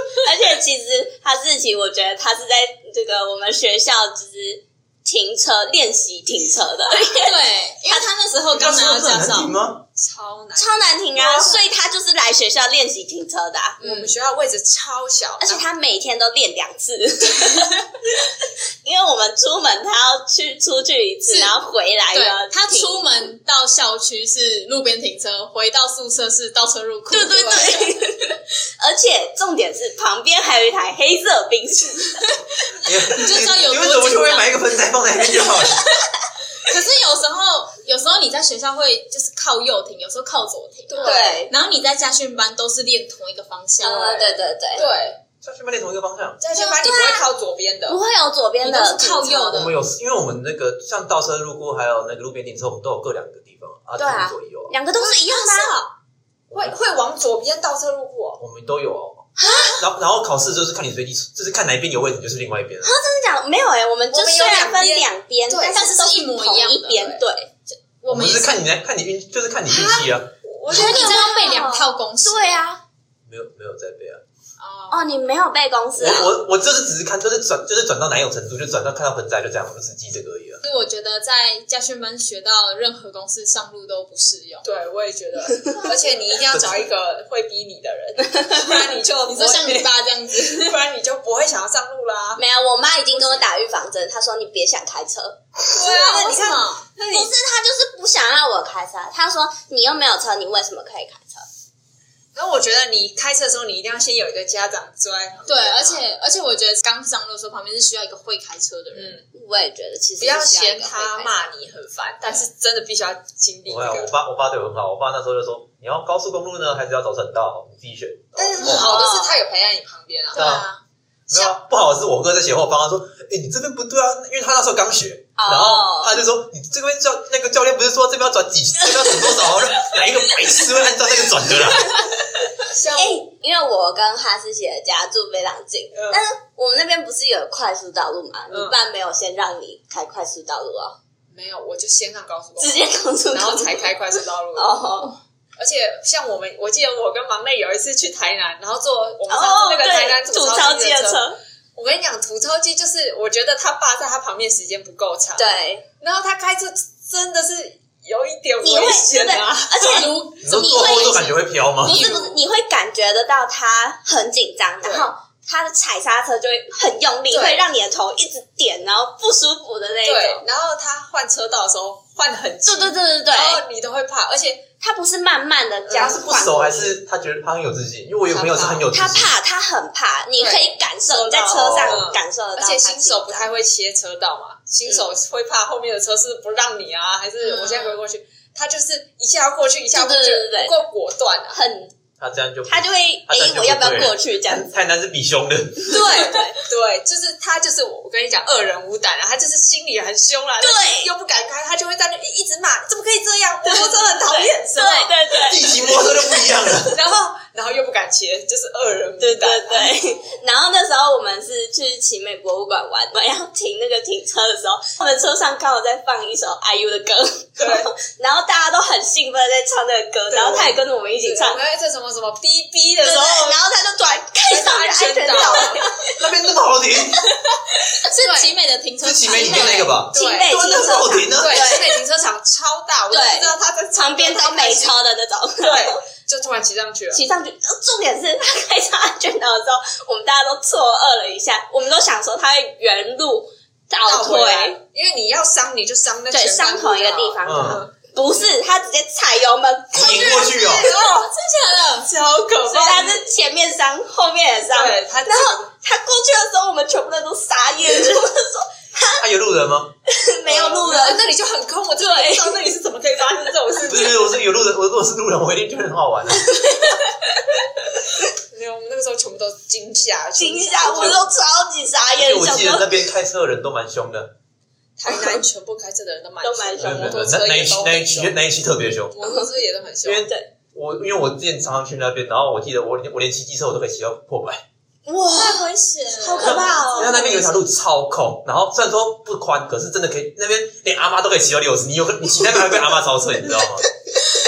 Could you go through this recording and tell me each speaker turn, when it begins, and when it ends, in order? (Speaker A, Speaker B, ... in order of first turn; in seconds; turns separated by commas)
Speaker A: 0.2-8.1, Speaker B: 7.1-9.5, Speaker C: 8.5-9.8, Speaker D: 10.0-11.6, Speaker A: 10.6-14.1, Speaker D: 13.8-15.7, Speaker A: 15.4-18.2, Speaker A: 18.8-23.3, Speaker B: 21.3-21.5, Speaker B: 22.1-27.9, Speaker A: 27.1-32.2, Speaker C: 32.8-35.9, Speaker B: 32.9-34.6, Speaker B: 35.3-35.8, Speaker B: 36.5-44.9, Speaker D: 40.9-41.5, Speaker A: 41.0-41.5, Speaker A: 43.8-44.9, Speaker D: 43.8-45.2, Speaker C: 45.4-46.4, Speaker D: 46.4-48.0, Speaker A: 46.6-47.3, Speaker A: 47.9-49.6, Speaker B: 48.6-49.8, Speaker C: 49.5-54.7, Speaker A: 54.0-55.7, Speaker B: 55.0-55.9, Speaker D: 56.5-58.4, Speaker C: 58.4-62.9, Speaker A: 59.4-59.8, Speaker A: 62.8-67.5, Speaker D: 64.1-65.8, Speaker B: 65.7-67.2, Speaker B: 67.7-68.6, Speaker C: 68.1-70.3, Speaker D: 69.7-71.4, Speaker B: 70.7-72.7, Speaker A: 70.7-72.8, Speaker C: 73.3-74.2, Speaker B: 74.6-75.1, Speaker A: 74.9-76.3, Speaker C: 76.0-80.6, Speaker B: 80.6-84.7, Speaker D: 84.6-92.4, Speaker C: 86.5-86.8, Speaker B: 89.2-90.8, Speaker A: 92.4-95.4, Speaker D: 93.1-93.5, Speaker D: 95.7-97.3, Speaker B: 95.8-96.9, Speaker A: 97.1-101.5, Speaker D: 102.3-106.0, Speaker B: 105.5-109.2, Speaker D: 108.9-109.3, Speaker A: 109.3-111.5, Speaker D: 110.2-114.1, Speaker C: 113.7-118.9, Speaker D: 118.4-120.6, Speaker A: 118.6-119.4, Speaker B: 120.3-120.8, Speaker C: 120.3-120.7, Speaker C: 121.3-132.1, Speaker A: 125.4-126.2, Speaker A: 128.8-130.3, Speaker A: 131.8-132.1, Speaker D: 132.6-133.2, Speaker A: 132.9-141.0, Speaker D: 135.9-136.2, Speaker D: 138.5-138.8, Speaker D: 141.3-144.8, Speaker A: 142.6-143.9, Speaker A: 144.6-145.2, Speaker D: 145.6-155.5, Speaker A: 149.3-151.4, Speaker A: 155.4-155.8, Speaker D: 156.0-160.1, Speaker A: 158.6-160.2, Speaker B: 159.9-162.4, Speaker C: 160.4-162.1, Speaker A: 160.8-161.2, Speaker A: 161.8-170.4, Speaker D: 164.8-165.1, Speaker D: 167.3-167.6, Speaker D: 170.0-174.7, Speaker A: 172.7-173.6, Speaker A: 174.8-176.3, Speaker D: 175.9-176.9, Speaker C: 175.9-179.3, Speaker D: 178.3-178.9, Speaker A: 178.9-183.5, Speaker D: 180.4-191.6, Speaker C: 181.5-182.1, Speaker B: 187.4-188.0, Speaker A: 189.9-190.8, Speaker A: 191.5-191.9, Speaker C: 192.2-196.1, Speaker A: 192.7-194.7, Speaker D: 195.9-205.1, Speaker A: 196.1-196.6, Speaker A: 200.6-201.1, Speaker A: 203.7-206.5, Speaker C: 205.5-207.0, Speaker D: 206.9-210.0, Speaker A: 209.2-221.6, Speaker B: 210.0-210.4, Speaker D: 217.6-217.9, Speaker D: 220.3-223.6, Speaker A: 223.0-226.2, Speaker D: 224.5-225.9, Speaker C: 226.2-227.3, Speaker B: 228.0-229.9, Speaker D: 228.2-228.5, Speaker C: 229.0-231.8, Speaker D: 229.3-230.5, Speaker A: 230.1-232.0, Speaker D: 231.3-235.0, Speaker A: 233.1-235.9, Speaker D: 235.6-237.2, Speaker A: 237.1-244.8, Speaker D: 244.1-248.6, Speaker A: 246.3-250.5, Speaker C: 247.4-247.8, Speaker C: 249.9-250.9, Speaker D: 250.0-251.3, Speaker B: 250.2-252.2, Speaker D: 252.1-253.3, Speaker A: 252.7-259.2, Speaker D: 254.7-255.7, Speaker C: 259.2-259.9, Speaker A: 260.1-261.3, Speaker D: 260.5-264.4, Speaker A: 262.0-262.7, Speaker C: 263.9-266.5, Speaker A: 266.4-267.5, Speaker D: 268.5-271.3, Speaker A: 270.4-272.9, Speaker C: 270.9-271.2, Speaker C: 272.1-274.3, Speaker D: 275.0-278.5, Speaker A: 275.1-275.4, Speaker A: 276.4-277.3, Speaker C: 276.8-279.1, Speaker D: 279.1-280.3, Speaker A: 279.2-279.5, Speaker C: 280.0-284.6, Speaker A: 285.1-287.5, Speaker B: 285.3-287.6, Speaker C: 286.4-293.9